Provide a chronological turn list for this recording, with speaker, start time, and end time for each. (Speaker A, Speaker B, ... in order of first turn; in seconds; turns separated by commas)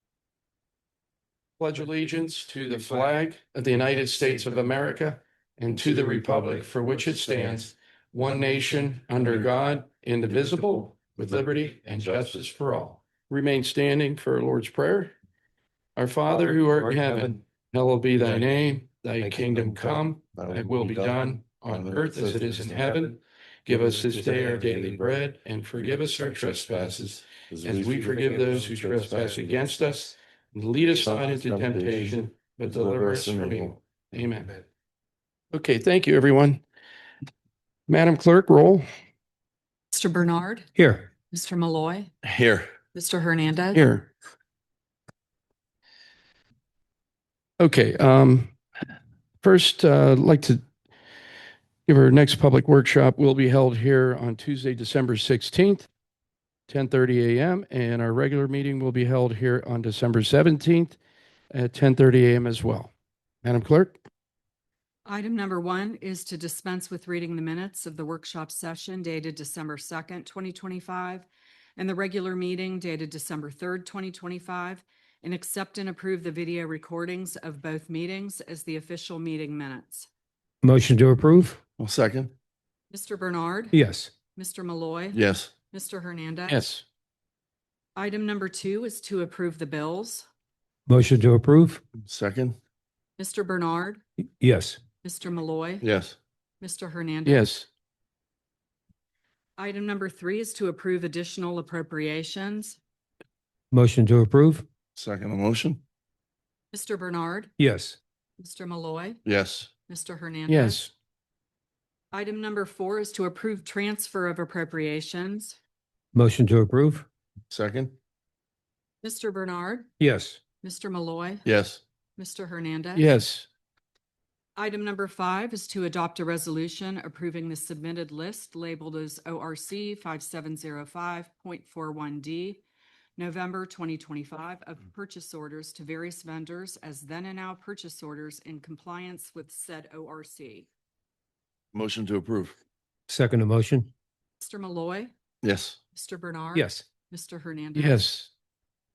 Speaker A: 1.6-15.1, Speaker A: 16.0-34.6, Speaker B: 20.3-23.1, Speaker B: 23.7-25.0, Speaker B: 25.9-29.7, Speaker B: 30.9-33.8, Speaker A: 35.5-36.6, Speaker A: 37.9-38.9, Speaker C: 39.9-42.1, Speaker D: 40.8-41.0, Speaker B: 42.2-42.7, Speaker C: 42.9-43.8, Speaker A: 43.7-44.1, Speaker A: 47.6-48.5, Speaker A: 49.4-50.6, Speaker A: 51.9-55.9, Speaker A: 56.7-61.0, Speaker A: 61.5-62.9, Speaker A: 63.4-64.0, Speaker C: 65.1-80.1, Speaker D: 80.6-81.6, Speaker B: 81.8-82.3, Speaker C: 82.9-83.8, Speaker D: 83.7-84.1, Speaker C: 84.4-85.2, Speaker B: 85.1-85.5, Speaker C: 85.7-86.6, Speaker A: 86.5-86.8, Speaker C: 88.0-90.3, Speaker D: 90.9-91.8, Speaker B: 92.1-92.6, Speaker C: 93.2-94.0, Speaker D: 94.4-94.8, Speaker C: 95.0-95.9, Speaker B: 95.8-96.2, Speaker C: 96.6-97.5, Speaker A: 97.2-97.7, Speaker C: 99.6-102.8, Speaker D: 103.7-104.7, Speaker B: 105.0-105.8, Speaker C: 106.7-107.5, Speaker D: 107.6-108.0, Speaker C: 108.4-109.2, Speaker B: 109.2-109.7, Speaker C: 109.9-110.8, Speaker A: 110.5-110.9, Speaker C: 112.1-115.6, Speaker D: 116.1-117.1, Speaker B: 117.5-117.9, Speaker C: 119.0-119.9, Speaker D: 120.0-120.4, Speaker C: 120.6-121.5, Speaker B: 121.5-121.8, Speaker C: 122.2-123.1, Speaker A: 123.0-123.5, Speaker C: 124.6-132.6, Speaker C: 133.2-140.7, Speaker B: 141.7-142.6, Speaker D: 143.1-143.9, Speaker C: 144.4-145.1, Speaker B: 145.4-145.8, Speaker C: 145.9-148.1, Speaker D: 146.5-146.8, Speaker A: 147.8-148.3